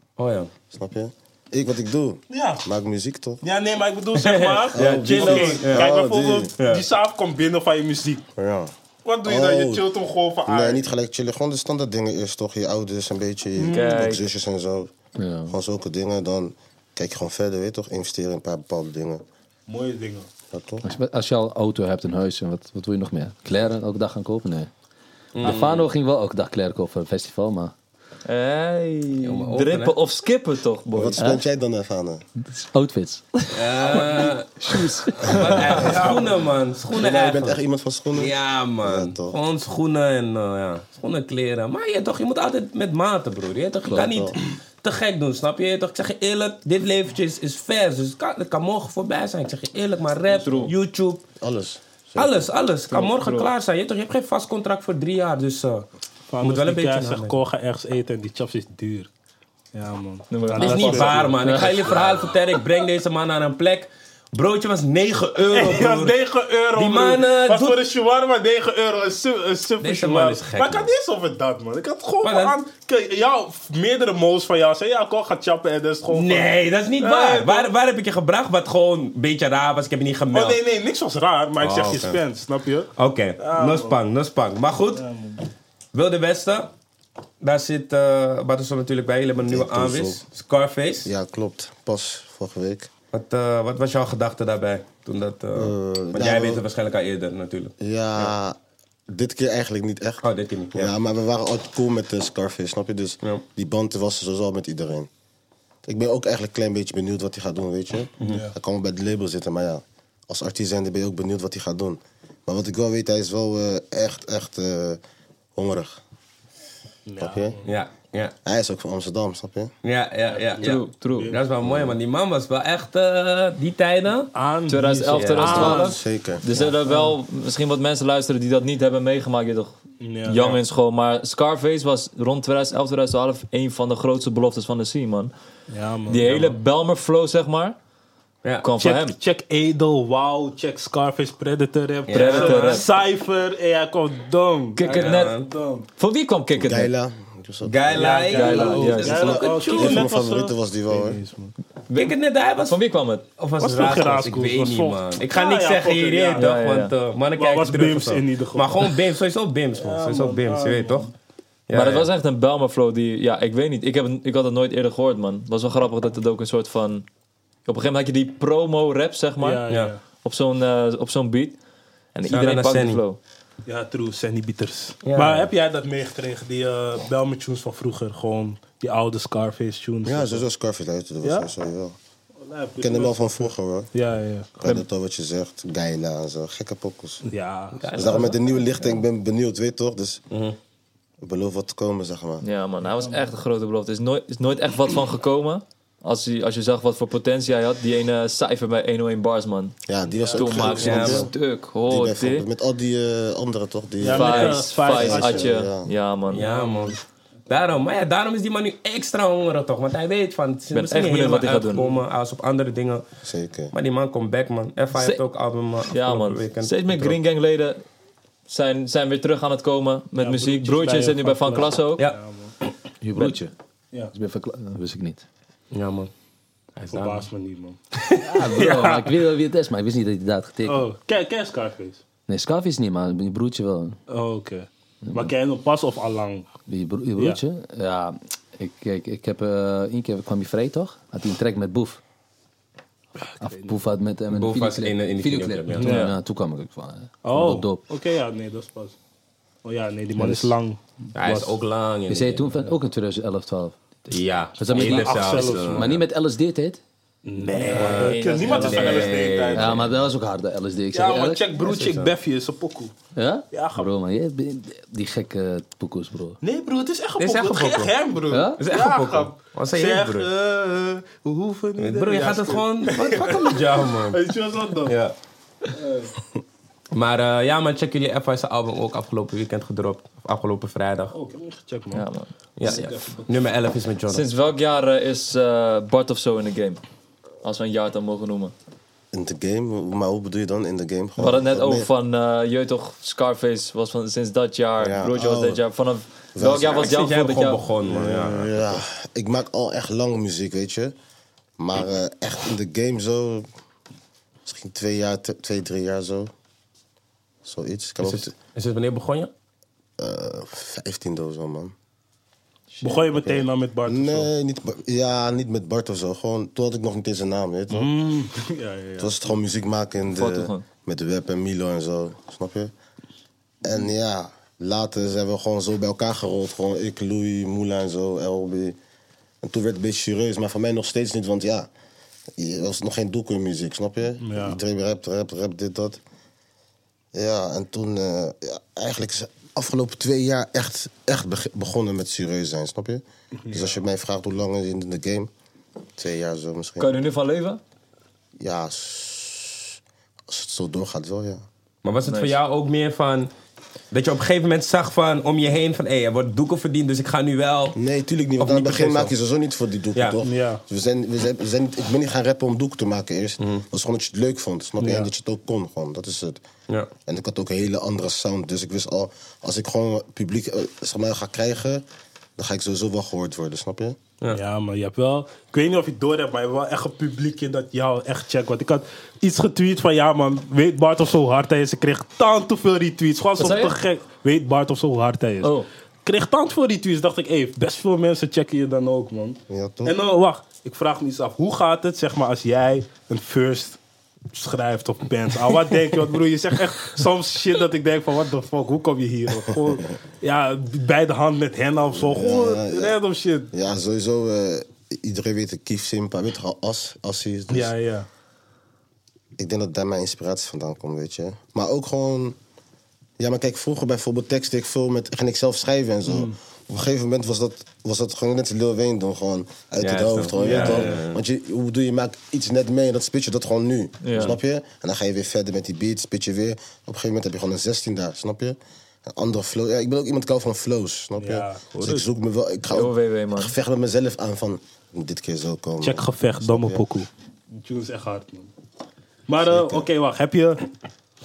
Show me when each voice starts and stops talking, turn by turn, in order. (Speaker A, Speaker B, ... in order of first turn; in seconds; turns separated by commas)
Speaker A: 0.2-0.5, Speaker B: 0.7-3.4, Speaker C: 2.3-2.6, Speaker C: 3.4-8.2, Speaker A: 4.1-5.9, Speaker B: 4.7-6.5, Speaker A: 6.6-6.8, Speaker B: 8.4-8.7, Speaker C: 9.0-10.8, Speaker B: 9.2-9.9, Speaker B: 10.4-14.9, Speaker D: 13.7-14.2, Speaker E: 15.2-15.5, Speaker B: 15.5-19.2, Speaker C: 19.7-20.3, Speaker B: 20.5-20.9, Speaker E: 20.8-24.7, Speaker A: 25.3-25.9, Speaker E: 25.4-27.7, Speaker D: 28.2-31.4, Speaker A: 29.2-29.9, Speaker B: 30.9-32.2, Speaker E: 32.4-33.5, Speaker A: 33.5-37.6, Speaker D: 34.0-35.8, Speaker E: 34.7-35.4, Speaker C: 35.7-36.3, Speaker B: 36.9-39.4, Speaker A: 38.1-51.2, Speaker B: 43.9-44.3, Speaker D: 50.3-50.7, Speaker B: 51.4-52.4, Speaker A: 52.1-55.9, Speaker D: 52.9-53.5, Speaker C: 56.3-59.1, Speaker A: 56.4-57.4, Speaker C: 59.7-61.4, Speaker D: 60.3-61.3, Speaker A: 60.6-66.2, Speaker E: 61.4-62.3, Speaker C: 65.5-77.7, Speaker A: 66.7-67.8, Speaker A: 69.8-70.9, Speaker A: 72.2-72.5, Speaker A: 76.1-80.6, Speaker C: 80.3-84.0, Speaker A: 81.6-82.2, Speaker A: 83.0-85.0, Speaker C: 84.9-85.4, Speaker A: 85.9-86.7, Speaker A: 87.4-91.1, Speaker B: 89.4-90.2, Speaker B: 91.0-92.9, Speaker A: 93.1-98.3, Speaker B: 95.5-96.6, Speaker B: 97.8-98.6, Speaker B: 99.1-105.1, Speaker A: 100.2-100.9, Speaker B: 105.8-115.0, Speaker C: 108.2-108.5, Speaker B: 115.5-116.0, Speaker C: 117.0-117.7, Speaker B: 117.2-117.5, Speaker A: 117.6-118.3, Speaker B: 118.4-119.7, Speaker A: 119.8-124.3, Speaker C: 120.4-121.4, Speaker D: 120.6-121.3, Speaker C: 124.3-126.0, Speaker D: 124.7-135.3, Speaker A: 125.2-125.8, Speaker B: 125.4-126.4, Speaker C: 126.5-127.1, Speaker C: 130.0-130.6, Speaker C: 135.7-136.6, Speaker D: 136.1-137.8, Speaker D: 138.6-139.2, Speaker C: 138.8-145.9, Speaker A: 142.1-142.8, Speaker D: 142.1-142.9, Speaker D: 144.8-145.4, Speaker A: 144.8-145.5, Speaker D: 146.0-146.9, Speaker B: 146.6-148.3, Speaker A: 147.6-150.1, Speaker C: 147.9-151.5, Speaker D: 148.3-149.5, Speaker B: 149.7-151.2, Speaker A: 151.9-152.8, Speaker D: 152.7-153.2, Speaker A: 153.4-161.1, Speaker C: 153.6-156.5, Speaker D: 156.4-156.9, Speaker C: 157.3-158.9, Speaker C: 159.8-161.1, Speaker A: 161.7-162.1, Speaker D: 161.7-167.1, Speaker D: 167.7-169.6, Speaker C: 169.4-170.0, Speaker A: 169.7-169.9, Speaker D: 170.2-171.6, Speaker D: 172.1-173.2, Speaker A: 172.3-173.0, Speaker C: 173.7-180.4, Speaker A: 175.0-175.5, Speaker B: 180.0-181.9, Speaker C: 181.2-181.5, Speaker C: 182.4-184.5, Speaker B: 182.8-183.9, Speaker B: 184.6-187.2, Speaker C: 187.2-188.2, Speaker A: 187.8-188.4, Speaker B: 187.9-190.2, Speaker A: 190.3-190.6, Speaker B: 191.2-192.4, Speaker D: 192.4-199.8, Speaker B: 199.9-201.3, Speaker C: 200.1-201.1, Speaker D: 200.3-202.4, Speaker A: 200.7-201.3, Speaker B: 201.9-205.9, Speaker C: 204.0-205.5, Speaker D: 204.1-206.4, Speaker A: 206.3-207.0, Speaker C: 206.3-206.9, Speaker A: 207.5-213.1, Speaker D: 210.7-211.8, Speaker B: 213.2-213.7, Speaker A: 213.7-217.2, Speaker D: 215.9-217.8, Speaker D: 218.5-222.0, Speaker C: 220.2-222.5, Speaker E: 223.0-223.5, Speaker E: 224.1-225.2, Speaker A: 225.7-226.1, Speaker A: 226.8-227.2, Speaker C: 226.9-227.8, Speaker A: 228.0-228.6, Speaker E: 228.2-230.8, Speaker C: 228.3-229.1, Speaker C: 230.6-232.0, Speaker E: 232.3-234.0, Speaker C: 234.1-236.5, Speaker E: 236.7-242.0, Speaker C: 243.2-243.8, Speaker E: 243.4-247.8, Speaker A: 244.3-246.0, Speaker C: 245.8-246.1, Speaker D: 245.8-246.1, Speaker C: 247.2-248.9, Speaker C: 249.6-251.6, Speaker E: 250.2-250.5, Speaker A: 251.1-252.6, Speaker E: 252.1-253.8, Speaker A: 254.1-256.0, Speaker E: 254.6-256.8, Speaker C: 254.7-256.0, Speaker C: 257.2-259.9, Speaker A: 257.6-259.8, Speaker E: 257.6-258.1, Speaker D: 257.7-259.1, Speaker E: 258.6-261.5, Speaker C: 260.9-262.9, Speaker A: 261.6-262.1, Speaker E: 263.1-266.4, Speaker C: 263.5-263.9, Speaker C: 266.4-275.0, Speaker A: 267.2-267.9, Speaker E: 268.3-268.6, Speaker A: 268.6-270.3, Speaker A: 271.8-274.2, Speaker A: 274.8-275.1, Speaker C: 275.7-276.1, Speaker A: 276.9-281.1, Speaker C: 281.1-282.1, Speaker D: 281.9-282.3, Speaker A: 282.6-284.2, Speaker C: 282.6-283.4, Speaker D: 284.1-286.8, Speaker D: 287.4-288.5, Speaker B: 289.1-291.9, Speaker D: 291.2-297.6, Speaker B: 294.8-295.6, Speaker B: 296.4-296.9, Speaker A: 296.7-298.8, Speaker B: 297.9-300.9, Speaker B: 301.6-303.5, Speaker B: 304.4-306.3, Speaker B: 307.4-308.3, Speaker A: 308.0-309.3, Speaker B: 310.0-311.7, Speaker D: 312.7-313.0, Speaker C: 312.8-314.3, Speaker B: 313.2-317.9, Speaker C: 317.7-319.2, Speaker B: 319.0-322.7, Speaker D: 320.1-320.6, Speaker B: 323.6-328.8, Speaker B: 329.4-331.7, Speaker B: 332.4-336.0, Speaker C: 334.2-334.6, Speaker B: 337.1-345.3, Speaker C: 343.4-343.8, Speaker B: 346.0-347.0, Speaker D: 346.8-347.6, Speaker B: 348.4-351.4, Speaker A: 351.8-353.3, Speaker D: 352.1-352.4, Speaker A: 353.9-357.8, Speaker B: 357.8-366.4, Speaker A: 358.4-359.1, Speaker C: 360.2-360.6, Speaker C: 364.8-365.1, Speaker B: 367.1-371.8, Speaker B: 372.4-374.0, Speaker C: 374.3-393.8, Speaker D: 383.4-383.7, Speaker D: 385.4-385.7, Speaker B: 389.5-389.9, Speaker C: 394.3-403.5, Speaker B: 401.9-403.0, Speaker B: 403.5-407.7, Speaker C: 407.5-408.1, Speaker B: 409.4-412.4, Speaker B: 413.2-436.8, Speaker C: 416.1-416.3, Speaker A: 419.8-421.2, Speaker C: 420.4-420.9, Speaker D: 424.0-424.4, Speaker C: 431.2-432.0, Speaker A: 431.7-432.0, Speaker D: 432.7-433.5, Speaker C: 435.8-438.5, Speaker C: 439.3-440.6, Speaker B: 439.4-439.9